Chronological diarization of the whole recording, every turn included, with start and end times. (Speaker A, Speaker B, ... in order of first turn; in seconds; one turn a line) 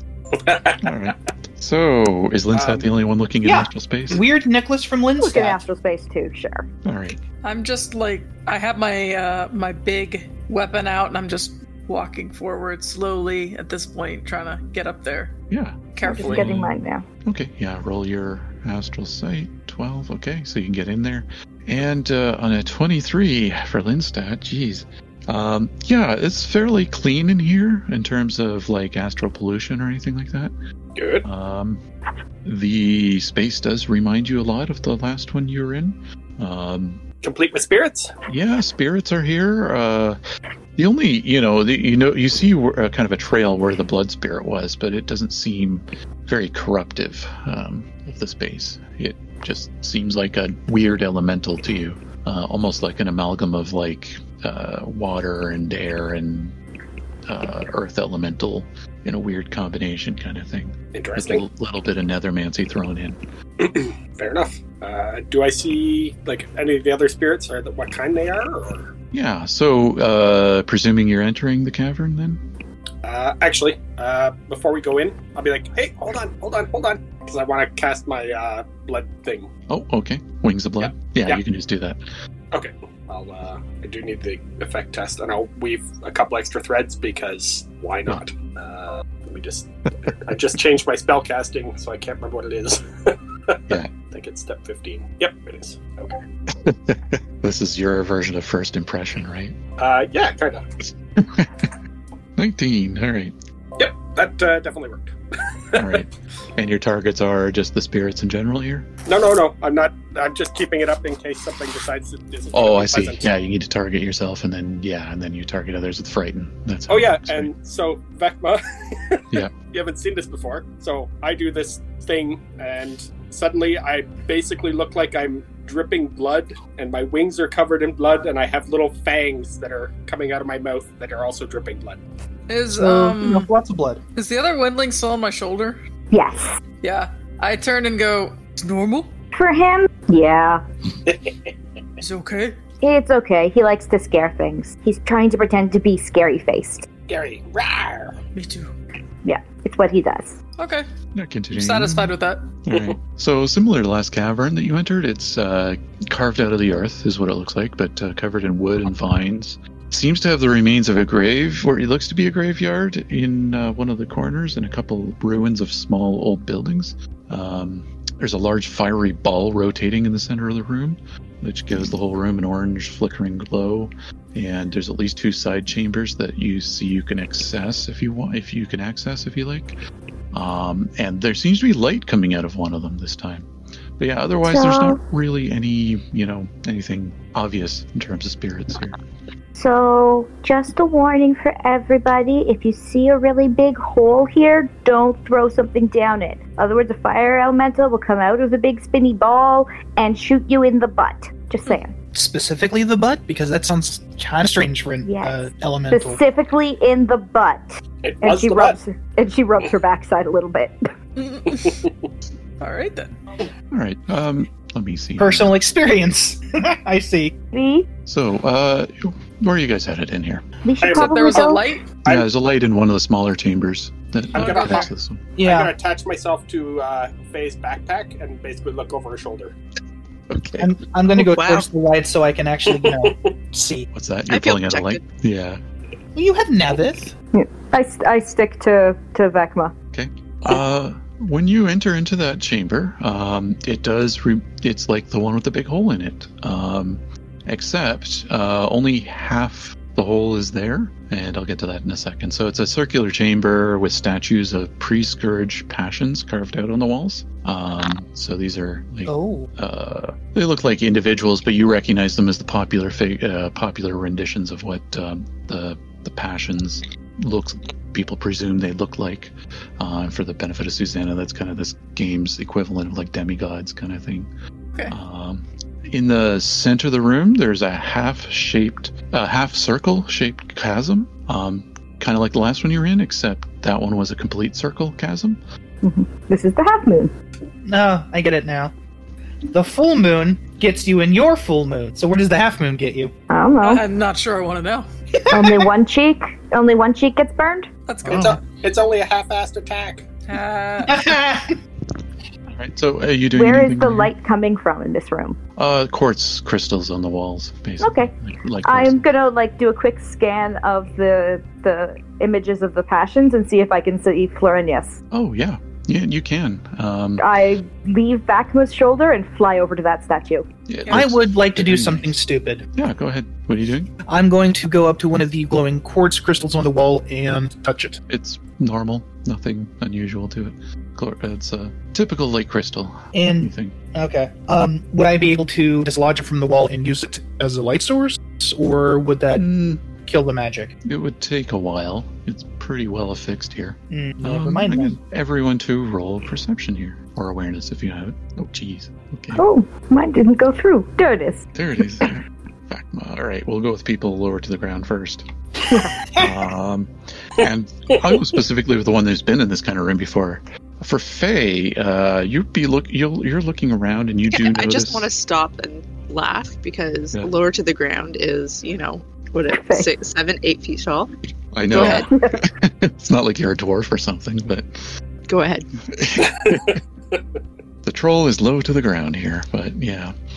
Speaker A: 0.3-0.9
Speaker B: 0.8-4.2
Speaker A: 2.5-2.9
Speaker C: 3.4-5.6
Speaker D: 5.2-6.7
Speaker B: 6.8-7.2
Speaker E: 7.4-15.3
Speaker B: 15.5-30.5
Speaker E: 15.9-16.6
Speaker D: 16.0-17.0
Speaker A: 30.9-31.2
Speaker B: 31.2-31.8
Speaker B: 32.4-37.0
Speaker A: 37.2-38.1
Speaker B: 38.3-40.2
Speaker B: 40.8-56.5
Speaker B: 57.3-63.2
Speaker A: 60.9-61.4
Speaker A: 63.6-68.9
Speaker B: 69.1-72.5
Speaker A: 73.0-79.5
Speaker B: 79.7-82.0
Speaker A: 80.8-81.4
Speaker A: 82.5-96.2
Speaker B: 96.5-99.6
Speaker A: 99.8-100.6
Speaker B: 101.2-101.7
Speaker B: 102.4-103.3
Speaker A: 103.8-106.0
Speaker B: 105.7-108.9
Speaker A: 109.0-113.3
Speaker B: 112.5-117.5
Speaker A: 116.9-132.0
Speaker E: 132.5-133.5
Speaker C: 132.7-134.0
Speaker E: 134.2-135.8
Speaker D: 136.1-136.6
Speaker E: 136.8-139.1
Speaker D: 139.3-140.6
Speaker A: 141.1-141.5
Speaker E: 142.0-142.6
Speaker D: 142.8-146.9
Speaker A: 147.1-148.2
Speaker E: 148.3-148.7
Speaker D: 149.2-150.4
Speaker E: 150.6-150.8
Speaker B: 151.1-152.1
Speaker E: 151.5-152.4
Speaker B: 152.7-179.8
Speaker B: 180.3-189.0
Speaker D: 184.4-185.0
Speaker D: 189.5-201.9
Speaker C: 202.1-206.2
Speaker D: 205.0-210.7
Speaker A: 208.0-208.8
Speaker E: 211.2-211.8
Speaker E: 212.6-213.2
Speaker B: 213.7-215.5
Speaker C: 215.2-217.3
Speaker D: 217.5-217.9
Speaker B: 218.1-220.4
Speaker D: 220.6-221.7
Speaker A: 220.8-221.2
Speaker E: 220.9-221.9
Speaker B: 222.1-225.2
Speaker E: 224.3-224.9
Speaker A: 224.3-224.9
Speaker C: 225.4-225.7
Speaker A: 225.4-229.5
Speaker B: 230.3-230.7
Speaker C: 230.6-233.9
Speaker F: 231.2-231.7
Speaker A: 232.7-233.3
Speaker B: 233.9-235.6
Speaker F: 234.3-235.0
Speaker C: 236.1-237.1
Speaker D: 237.3-239.7
Speaker B: 239.9-274.3
Speaker C: 259.1-259.5
Speaker B: 274.9-285.4
Speaker D: 285.8-287.1
Speaker C: 287.6-288.7
Speaker C: 289.5-293.1
Speaker D: 293.3-293.8
Speaker E: 293.6-294.9
Speaker D: 295.3-297.7
Speaker C: 295.3-295.7
Speaker E: 297.9-298.4
Speaker C: 298.0-298.4
Speaker A: 298.1-300.1
Speaker E: 300.3-301.1
Speaker C: 300.8-301.6
Speaker B: 302.5-304.1
Speaker D: 303.3-305.4
Speaker B: 305.6-309.1
Speaker D: 307.8-308.1
Speaker D: 308.6-315.0
Speaker B: 315.1-317.2
Speaker D: 317.2-320.4
Speaker B: 320.7-322.1
Speaker C: 320.9-322.6
Speaker B: 322.8-323.9
Speaker C: 324.1-328.0
Speaker B: 328.1-333.7
Speaker C: 333.1-339.4
Speaker B: 339.3-339.8
Speaker C: 340.0-340.7
Speaker B: 340.8-349.4
Speaker C: 343.9-345.0
Speaker D: 349.4-351.4
Speaker B: 351.5-355.3
Speaker C: 355.7-356.3
Speaker B: 356.1-365.1
Speaker F: 364.3-371.1
Speaker D: 369.5-369.9
Speaker B: 371.5-374.7
Speaker F: 371.7-372.1
Speaker D: 371.8-372.4
Speaker F: 375.3-375.7
Speaker B: 375.9-376.8
Speaker A: 376.3-377.2
Speaker B: 377.8-380.1